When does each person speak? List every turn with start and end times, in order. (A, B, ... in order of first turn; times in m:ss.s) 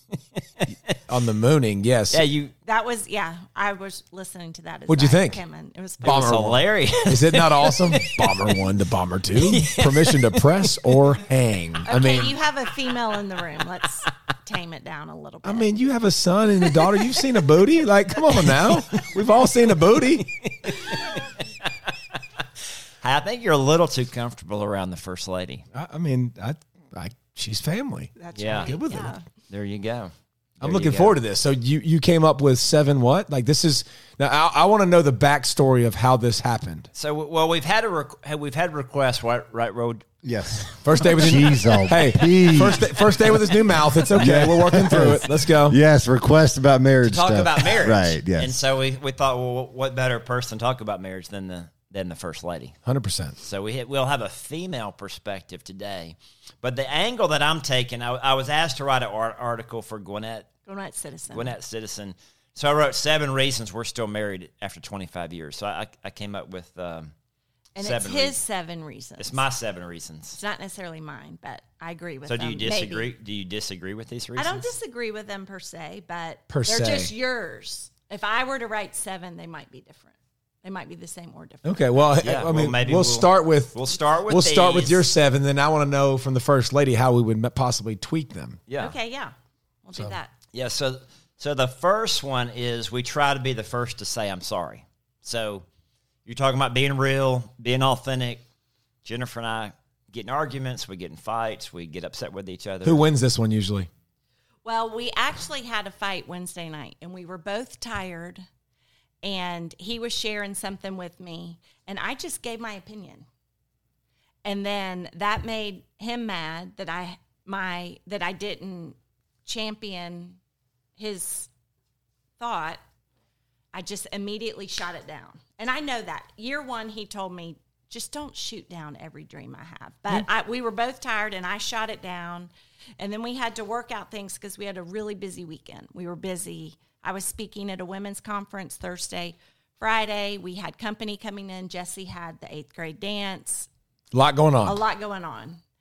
0:00.6-0:01.0 A
0:01.1-0:02.3 B
0:02.1-0:02.5 A
0:02.7-0:06.3 C
0:04.9-0:05.4 B
0:06.0-0:12.4 B
0:06.0-0:08.6 A
0:09.3-0:11.0 A
0:11.9-0:15.7 C
0:15.4-0:20.4 B
0:20.4-0:21.7 A
0:23.0-0:25.7 A
0:25.7-0:29.2 B
0:28.2-0:29.2 C
0:28.4-0:28.8 A
0:29.5-0:31.2 A
0:30.6-0:36.9 B
0:37.0-0:41.8 A
0:40.2-0:43.2 D
0:40.8-0:45.8 B
0:44.1-0:48.6 D
0:47.0-0:52.8 A
0:52.8-0:53.4 B
0:53.4-1:00.5 A
1:00.7-1:01.5 C
1:01.3-1:07.1 A
1:07.8-1:09.4 C
1:07.8-1:08.4 A
1:09.2-1:10.4 A
1:10.4-1:13.1 C
1:12.3-1:14.7 A
1:14.4-1:22.0 C
1:16.5-1:17.1 B
1:21.6-1:28.6 B
1:22.2-1:25.1 A
1:28.7-1:28.9 A
1:28.8-1:30.3 C
1:30.5-1:35.6 A
1:36.3-1:38.4 A
1:39.0-1:43.0 A
1:42.8-1:43.9 B
1:44.6-1:48.4 C
1:49.2-1:53.3 C
1:54.4-2:00.4 C
2:01.0-2:01.5 C
2:02.4-2:02.8 C
2:03.7-2:23.7 C
2:24.1-2:24.8 B
2:24.6-2:25.6 C